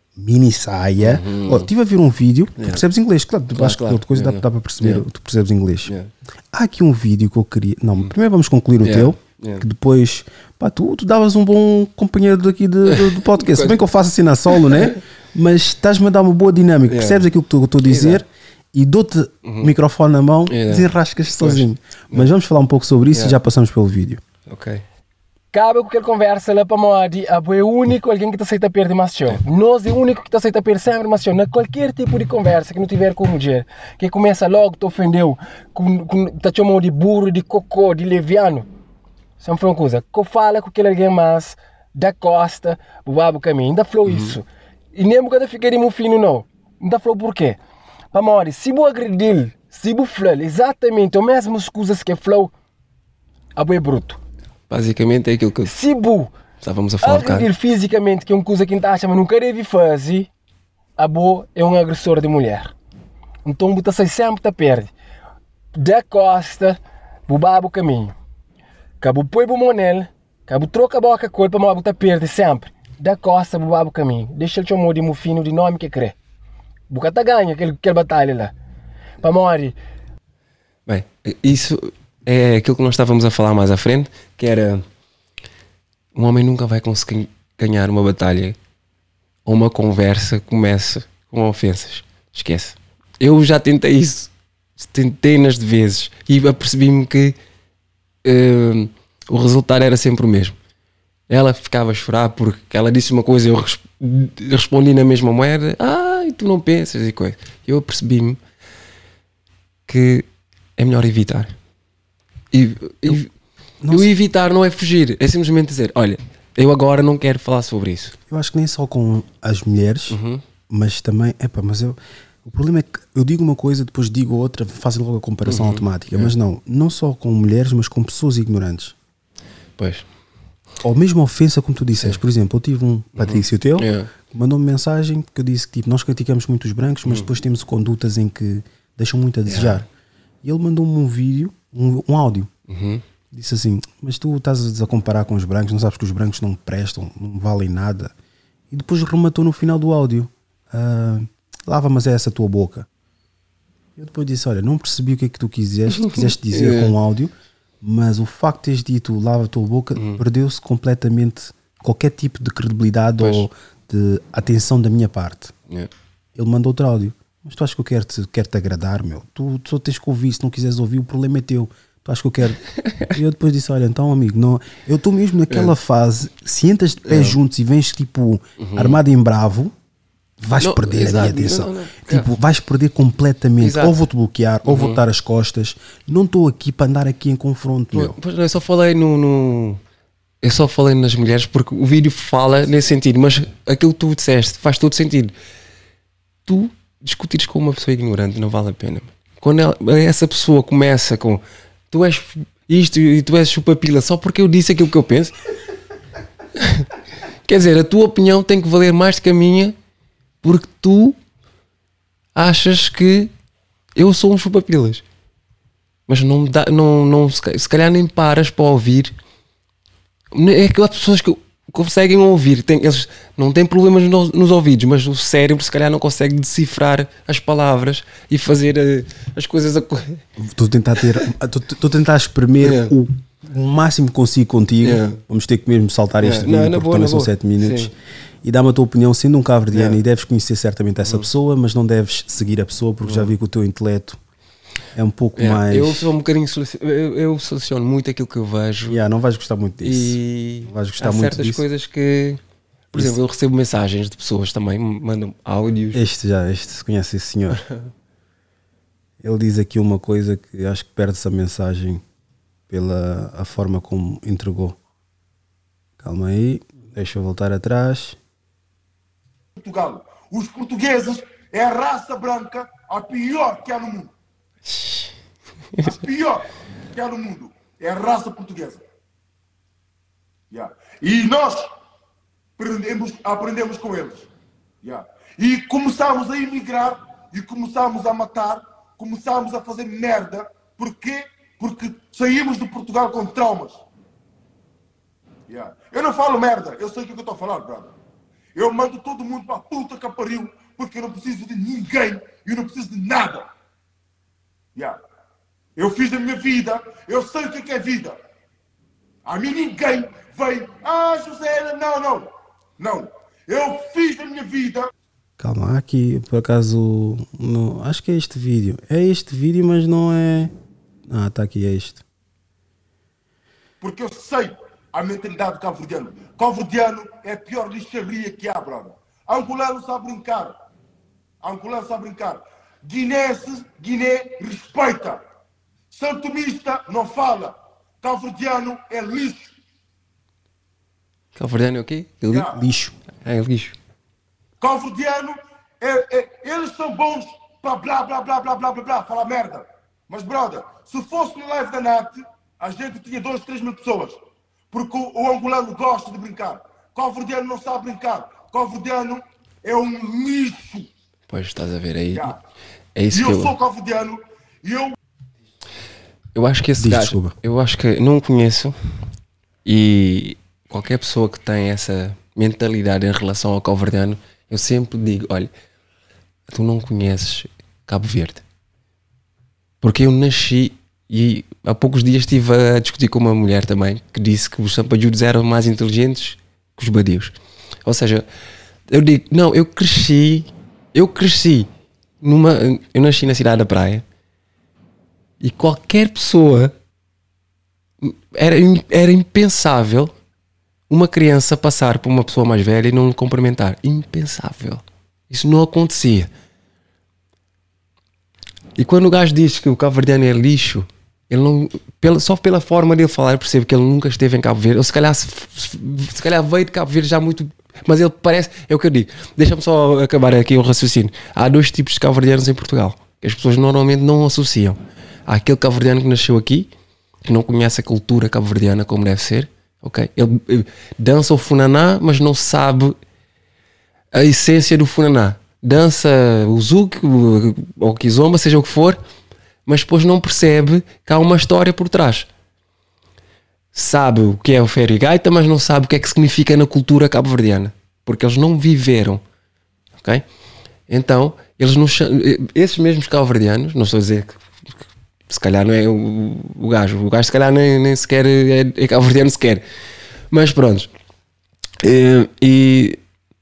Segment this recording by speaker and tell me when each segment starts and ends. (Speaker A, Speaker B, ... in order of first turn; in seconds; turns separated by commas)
Speaker A: 0.2-5.9, Speaker B: 1.0-1.7, Speaker B: 2.6-2.8, Speaker B: 3.5-5.0, Speaker A: 6.5-24.2, Speaker B: 8.8-9.6, Speaker B: 12.9-13.8, Speaker B: 16.9-17.2, Speaker B: 17.8-18.2, Speaker B: 19.4-19.7, Speaker B: 20.5-20.9, Speaker B: 21.4-22.3, Speaker B: 24.5-24.8, Speaker C: 25.5-38.7, Speaker C: 39.4-44.4, Speaker B: 44.1-44.4, Speaker C: 45.0-47.6, Speaker C: 48.1-52.5, Speaker C: 53.6-54.2, Speaker B: 54.7-55.8, Speaker C: 55.6-56.3, Speaker B: 56.6-57.5, Speaker C: 57.0-60.3, Speaker C: 61.0-62.7, Speaker C: 63.5-64.9, Speaker C: 65.7-68.1, Speaker C: 69.0-76.2, Speaker C: 76.9-78.5, Speaker C: 79.2-79.8, Speaker B: 80.9-84.8, Speaker B: 86.1-88.6, Speaker B: 89.5-97.3, Speaker B: 98.2-100.6, Speaker B: 101.3-108.4, Speaker B: 109.9-110.3, Speaker B: 110.8-111.5, Speaker B: 112.5-113.3, Speaker A: 113.8-114.1, Speaker B: 113.9-118.2, Speaker A: 118.3-120.2, Speaker B: 120.1-120.4, Speaker A: 120.7-128.9, Speaker B: 125.5-126.3, Speaker B: 129.8-130.1, Speaker A: 130.8-139.9, Speaker B: 133.2-134.1, Speaker B: 139.5-139.8, Speaker A: 140.4-142.5, Speaker B: 142.7-143.0, Speaker A: 143.3-148.1, Speaker A: 148.7-152.9, Speaker A: 154.0-165.5, Speaker B: 156.0-156.9, Speaker B: 160.0-160.2, Speaker B: 163.2-163.5, Speaker A: 166.4-172.6, Speaker B: 172.8-173.1, Speaker A: 173.1-179.7, Speaker B: 177.1-177.4, Speaker B: 178.6-179.0, Speaker A: 180.4-188.2, Speaker B: 180.6-182.3, Speaker B: 183.6-183.9, Speaker B: 184.7-185.0, Speaker B: 187.9-189.8, Speaker B: 190.4-195.3, Speaker B: 196.5-205.3, Speaker B: 206.6-206.9, Speaker B: 207.5-209.8, Speaker B: 210.4-211.2, Speaker B: 212.3-213.3, Speaker B: 214.0-215.0, Speaker B: 216.1-219.1, Speaker B: 220.3-230.2, Speaker A: 230.4-244.2, Speaker B: 232.6-232.9, Speaker B: 234.8-235.2, Speaker B: 236.2-237.9, Speaker B: 239.7-240.0, Speaker B: 243.0-243.3, Speaker A: 244.9-246.1, Speaker B: 245.4-249.0, Speaker A: 248.9-251.6, Speaker B: 249.8-252.4, Speaker A: 252.9-253.2, Speaker B: 252.9-256.0, Speaker A: 255.9-257.6, Speaker A: 259.2-262.0, Speaker A: 262.7-264.8, Speaker A: 266.0-268.2, Speaker D: 269.6-274.1, Speaker B: 274.6-275.1, Speaker D: 275.8-278.8, Speaker D: 280.5-281.7, Speaker D: 282.6-284.3, Speaker D: 284.8-293.8, Speaker D: 295.5-297.9, Speaker D: 298.6-303.5, Speaker D: 305.8-308.2, Speaker D: 309.3-312.3, Speaker D: 312.8-314.9, Speaker A: 315.4-320.5, Speaker A: 321.1-322.0, Speaker D: 323.8-330.5, Speaker D: 331.4-335.2, Speaker D: 335.9-339.5, Speaker B: 341.4-342.6, Speaker D: 342.3-342.6, Speaker A: 342.6-342.9, Speaker B: 343.2-343.8, Speaker D: 344.6-354.2, Speaker D: 354.7-360.9, Speaker B: 361.3-362.3, Speaker B: 363.0-363.5, Speaker D: 363.1-364.9, Speaker B: 366.4-368.8, Speaker A: 366.8-367.4, Speaker B: 369.6-375.5, Speaker B: 376.5-378.4, Speaker B: 379.8-388.3, Speaker B: 388.9-391.7, Speaker B: 392.2-394.0, Speaker B: 395.4-396.7, Speaker B: 398.0-400.1, Speaker B: 400.9-406.3, Speaker B: 408.8-426.7, Speaker B: 427.2-433.0, Speaker B: 434.1-439.0, Speaker B: 439.7-442.3, Speaker B: 443.7-449.2, Speaker B: 450.9-454.4, Speaker B: 455.3-459.6, Speaker B: 460.3-460.9, Speaker B: 461.8-463.0